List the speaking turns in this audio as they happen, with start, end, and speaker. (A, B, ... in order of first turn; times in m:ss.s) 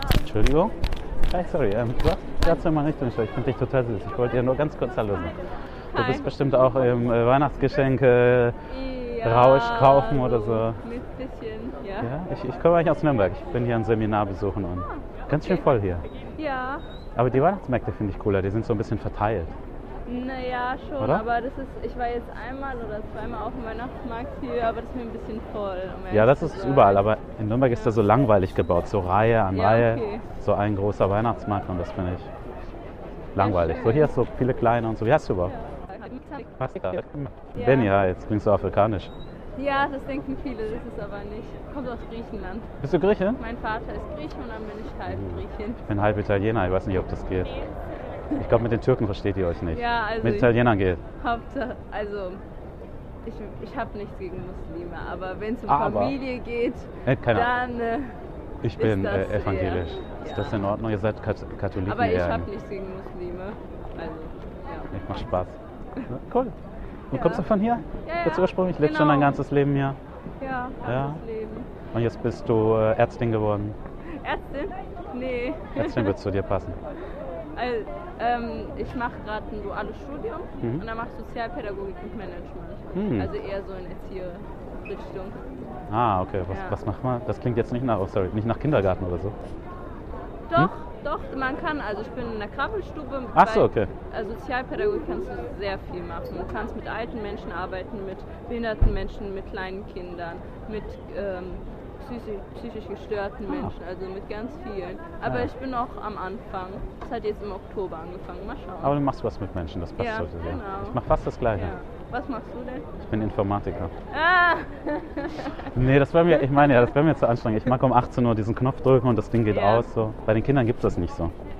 0:00.2-0:00.7 A
0:01.3-0:05.4 A
0:05.9-0:06.8 B
0:05.9-0:08.6 A
0:08.7-0:12.1 B
0:09.2-0:10.8 A
0:12.0-0:16.0 A
0:14.8-0:15.7 B
0:16.3-0:16.8 B
0:17.2-0:19.5 A
0:20.1-0:27.1 B
0:21.0-0:21.2 A
0:26.1-0:32.3 A
0:27.7-0:28.0 B
0:29.5-0:30.3 B
0:33.3-0:35.5 A
0:33.4-0:34.1 B
0:35.4-0:36.7 B
0:36.6-0:39.1 A
0:37.5-0:37.9 B
0:39.6-0:42.7 B
0:42.8-0:43.4 A
0:43.3-0:45.8 B
0:45.1-0:47.6 A
0:48.3-0:51.0 A
0:49.7-0:50.5 B
0:51.2-0:52.4 B
0:53.2-0:58.1 B
0:55.7-0:56.2 A
0:57.0-0:57.5 A
0:58.6-1:02.5 A
0:58.8-1:00.6 B
1:01.8-1:04.9 B
1:04.9-1:05.6 A
1:06.1-1:06.6 A
1:07.1-1:10.0 A
1:07.1-1:07.4 B
1:08.0-1:09.4 B
1:10.4-1:11.7 B
1:10.8-1:11.2 A
1:11.9-1:13.8 A
1:14.1-1:16.1 B
1:15.8-1:16.8 A
1:17.5-1:25.4 B
1:22.9-1:23.3 A
1:25.9-1:29.3 A
1:26.5-1:26.8 B
1:30.5-1:49.0 B
1:33.3-1:33.9 A
1:43.5-1:43.7 A
1:45.2-1:45.5 A
1:48.8-1:51.7 A
1:50.0-1:51.0 B
1:51.5-1:52.9 B
1:53.0-1:53.9 A
1:54.1-1:55.7 B
1:55.6-2:01.3 A
1:56.4-1:56.7 B
1:59.5-1:59.8 B